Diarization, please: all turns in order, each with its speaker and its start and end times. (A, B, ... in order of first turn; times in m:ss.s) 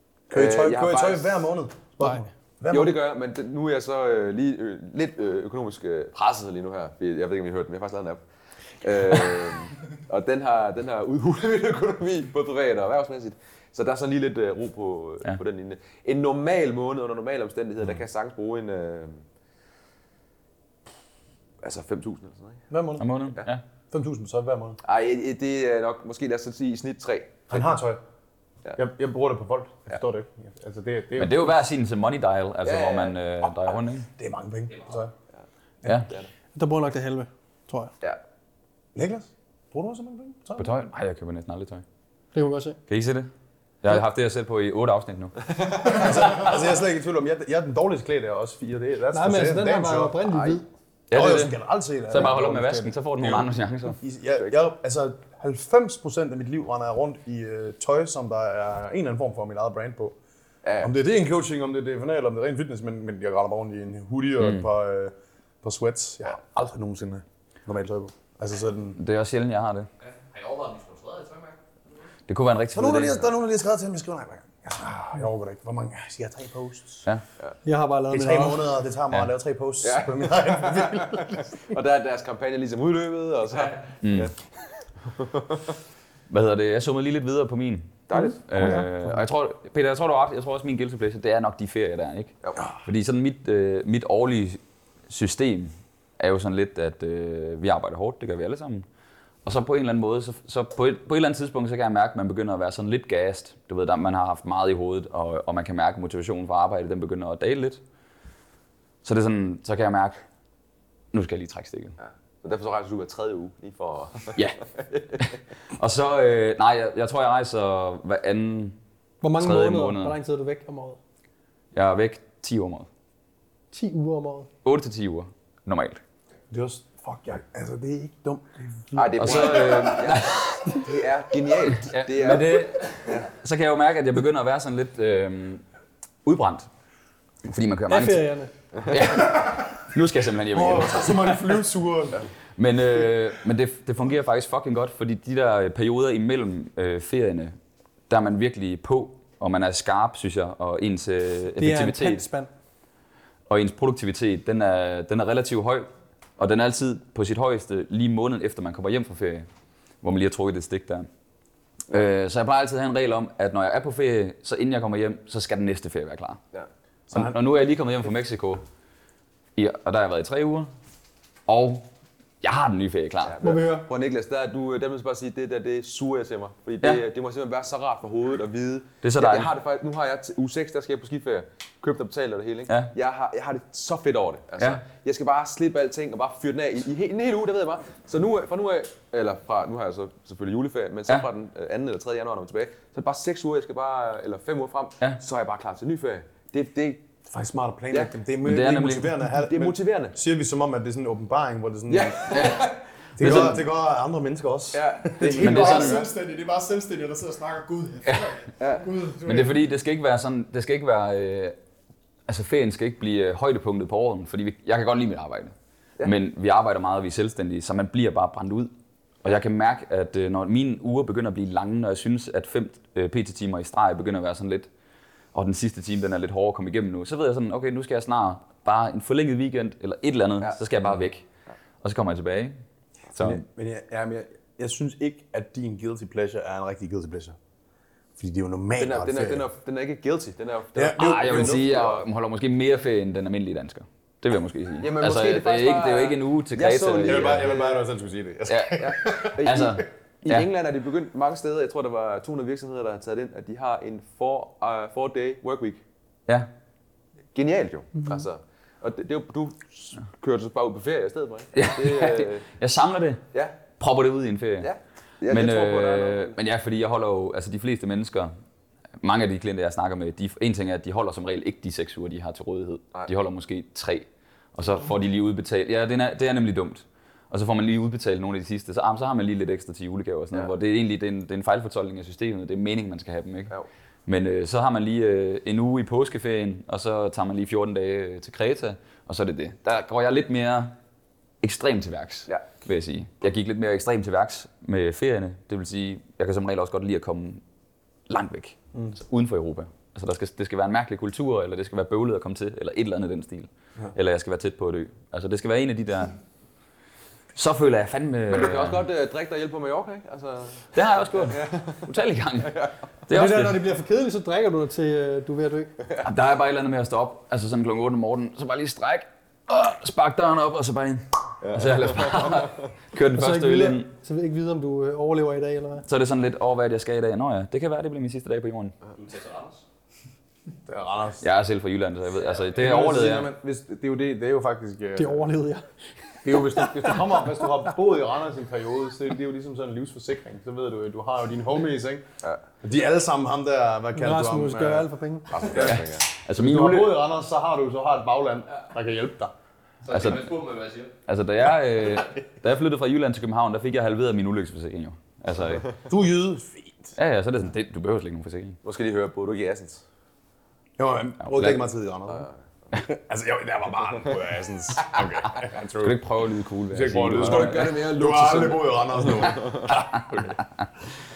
0:00.3-0:03.0 A
0:00.3-0:01.4 B
0:02.7-0:08.2 B
0:08.8-0:19.2 B
0:21.6-0:22.6 B
0:22.7-0:23.1 A
0:23.0-0:23.6 C
0:23.9-0:24.8 A
0:24.8-0:27.6 B
0:27.5-0:28.0 A
0:28.8-0:31.6 A
0:31.2-0:34.1 C
0:32.6-0:33.4 B
0:34.2-0:35.1 A
0:36.5-0:37.9 D
0:38.9-0:40.7 A
0:40.6-0:41.8 C
0:42.3-0:42.8 D
0:42.9-0:43.3 C
0:43.8-0:46.0 C
0:45.9-0:50.2 A
0:49.1-0:50.6 D
0:50.3-0:50.6 B
0:51.1-0:51.6 C
0:51.1-1:00.2 A
0:52.1-0:54.0 C
1:00.6-1:00.9 B
1:00.8-1:09.0 A
1:09.0-1:09.9 C
1:10.0-1:11.6 E
1:12.3-1:13.3 C
1:12.7-1:17.0 A
1:17.6-1:18.6 D
1:18.1-1:21.6 A
1:19.8-1:24.3 B
1:24.0-1:24.3 C
1:25.0-1:25.7 B
1:26.3-1:38.8 C
1:28.1-1:28.8 B
1:39.4-1:47.8 C
1:49.0-1:50.2 C
1:51.1-1:52.0 C
1:52.0-1:55.2 B
1:55.2-1:58.8 C
1:59.2-2:01.0 D
1:59.4-2:00.2 C
2:01.7-2:02.9 C
2:03.7-2:04.5 D
2:04.6-2:06.0 C
2:06.5-2:09.8 A
2:08.9-2:13.3 B
2:09.2-2:10.8 C
2:11.7-2:15.6 C
2:16.2-2:16.7 C
2:17.4-2:18.2 C
2:17.9-2:18.5 D
2:18.8-2:21.4 C
2:20.5-2:22.2 A
2:22.6-2:27.5 C
2:28.1-2:32.2 C
2:31.6-2:32.5 D
2:33.5-2:39.5 C
2:40.0-2:41.1 C
2:41.9-2:46.4 C
2:47.1-2:47.4 A
2:47.1-2:48.6 C
2:49.6-2:50.7 C
2:51.5-2:51.8 C
2:52.4-2:53.4 C
2:53.2-3:17.0 B
2:53.4-2:53.9 D
2:59.0-2:59.5 C
3:17.3-3:22.6 A
3:18.4-3:19.1 C
3:19.4-3:20.2 B
3:21.9-3:23.5 B
3:22.3-3:22.7 C
3:23.2-3:25.5 A
3:23.2-3:23.6 C
3:24.7-3:26.1 B
3:25.2-3:29.6 F
3:25.4-3:26.0 C
3:28.1-3:28.3 C
3:28.6-3:28.9 B
3:29.2-3:31.6 C
3:32.3-3:38.7 C
3:39.2-3:44.7 C
3:45.3-3:51.2 C
3:51.8-3:52.6 C
3:53.1-3:53.4 C
3:53.2-3:57.4 A
3:58.2-3:59.4 A
3:58.8-4:02.0 B
4:00.7-4:01.6 A
4:00.9-4:07.5 C
4:04.8-4:07.8 B
4:07.0-4:09.6 A
4:08.5-4:08.8 C
4:08.8-4:15.8 B
4:09.4-4:10.5 C
4:17.3-4:22.4 B
4:21.5-4:24.7 C
4:23.3-4:23.6 B
4:24.6-4:26.4 B
4:25.3-4:28.3 C
4:29.0-4:43.5 C
4:44.1-4:50.7 C
4:51.4-4:57.4 C
4:58.1-5:06.2 C
5:07.3-5:08.8 C
5:08.3-5:11.8 B
5:10.7-5:13.6 C
5:13.1-5:15.7 D
5:16.0-5:23.9 C
5:21.4-5:22.6 B
5:23.1-5:25.8 D
5:25.8-5:28.7 C
5:28.9-5:29.6 E
5:30.6-5:31.2 A
5:31.2-5:33.3 C
5:32.6-5:35.3 A
5:35.0-5:37.1 D
5:36.2-5:42.0 A
5:42.6-5:44.9 A
5:43.9-5:45.5 D
5:45.3-5:46.1 B
5:45.5-5:49.3 A
5:45.6-5:46.9 C
5:49.8-5:50.9 E
5:49.9-5:50.4 C
5:51.1-5:55.7 C
5:55.9-5:56.9 A
5:57.0-5:58.6 C
5:58.6-5:59.8 B
6:00.8-6:06.0 A
6:01.2-6:01.6 C
6:05.8-6:07.7 C
6:06.7-6:10.4 A
6:07.0-6:09.7 B
6:09.7-6:10.2 C